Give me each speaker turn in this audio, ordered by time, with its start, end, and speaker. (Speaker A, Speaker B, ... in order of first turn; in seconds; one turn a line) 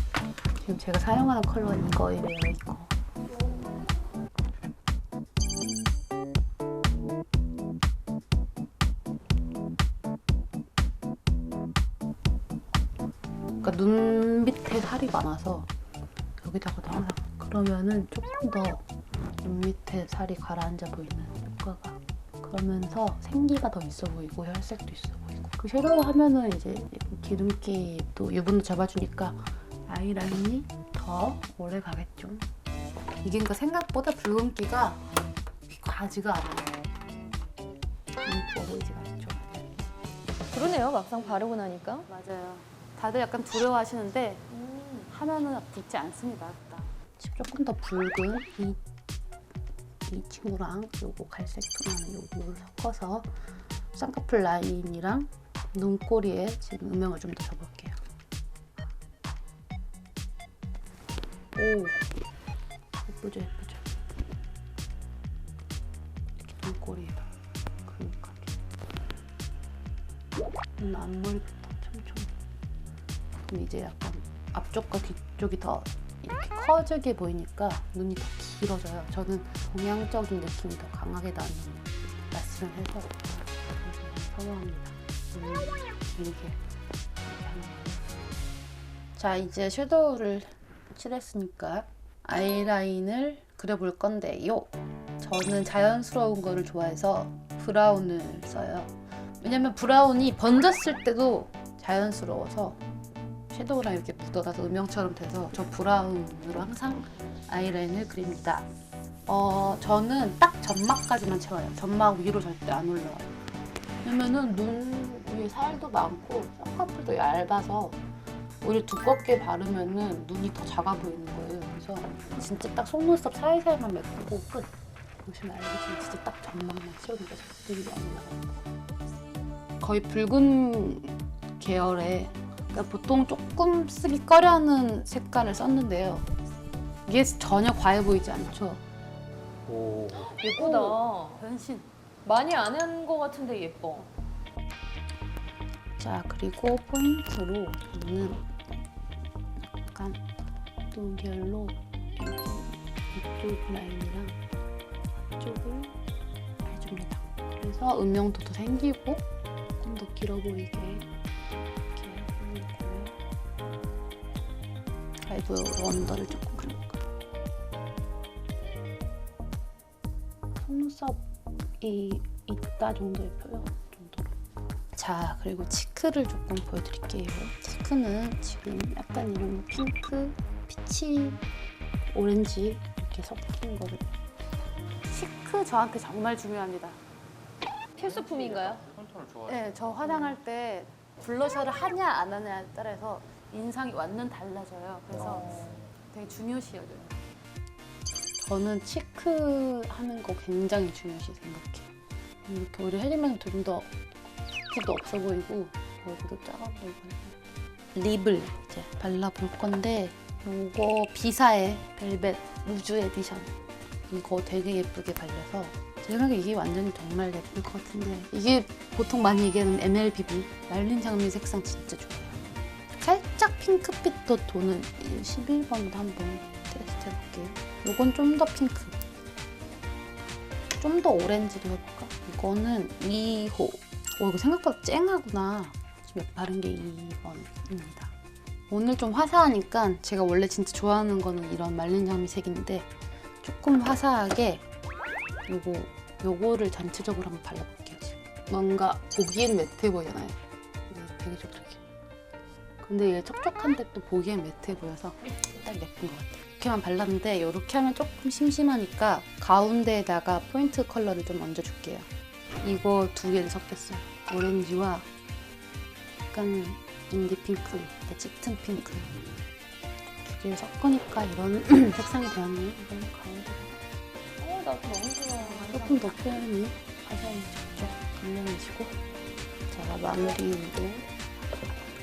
Speaker A: 0.6-2.9
Speaker A: 13.6-15.7
Speaker A: 16.4-18.8
Speaker A: 19.4-32.5
Speaker A: 33.2-35.0
Speaker A: 35.7-36.9
Speaker A: 38.2-39.9
Speaker B: 40.5-42.1
Speaker A: 41.1-41.5
Speaker A: 42.1-44.4
Speaker B: 44.5-45.1
Speaker A: 45.1-48.8
Speaker A: 50.1-53.3
Speaker A: 53.9-58.0
Speaker A: 61.5-62.0
Speaker A: 63.0-64.0
Speaker A: 66.4-67.3
Speaker A: 67.8-68.6
Speaker A: 70.8-72.3
Speaker A: 73.5-86.6
Speaker A: 87.2-88.2
Speaker A: 89.2-102.8
Speaker A: 103.5-108.7
Speaker A: 109.3-113.3
Speaker A: 114.0-118.0
Speaker A: 118.6-124.7
Speaker A: 125.2-128.6
Speaker A: 129.8-136.3
Speaker A: 137.1-138.8
Speaker C: 139.7-140.3
Speaker B: 140.1-141.4
Speaker A: 140.6-141.9
Speaker B: 142.2-144.1
Speaker A: 146.0-148.5
Speaker A: 149.6-150.2
Speaker A: 150.9-154.4
Speaker A: 155.3-156.0
Speaker A: 156.6-159.2
Speaker A: 159.8-161.1
Speaker A: 161.9-163.2
Speaker A: 165.2-167.0
Speaker A: 170.6-171.2
Speaker A: 171.8-174.3
Speaker A: 174.9-181.4
Speaker A: 182.1-184.1
Speaker A: 185.1-187.0
Speaker C: 187.9-190.0
Speaker B: 188.0-188.8
Speaker A: 189.5-195.5
Speaker B: 190.0-190.3
Speaker B: 195.1-195.8
Speaker A: 196.1-197.1
Speaker A: 198.4-201.9
Speaker A: 202.4-203.9
Speaker A: 204.4-207.4
Speaker A: 207.9-213.5
Speaker A: 214.1-222.4
Speaker A: 222.9-229.0
Speaker A: 230.8-238.1
Speaker A: 238.7-242.9
Speaker A: 243.4-244.6
Speaker A: 245.5-251.9
Speaker A: 252.8-262.1
Speaker A: 262.6-265.1
Speaker A: 266.3-269.2
Speaker A: 270.1-273.8
Speaker B: 274.4-276.2
Speaker A: 275.4-278.9
Speaker A: 279.7-281.1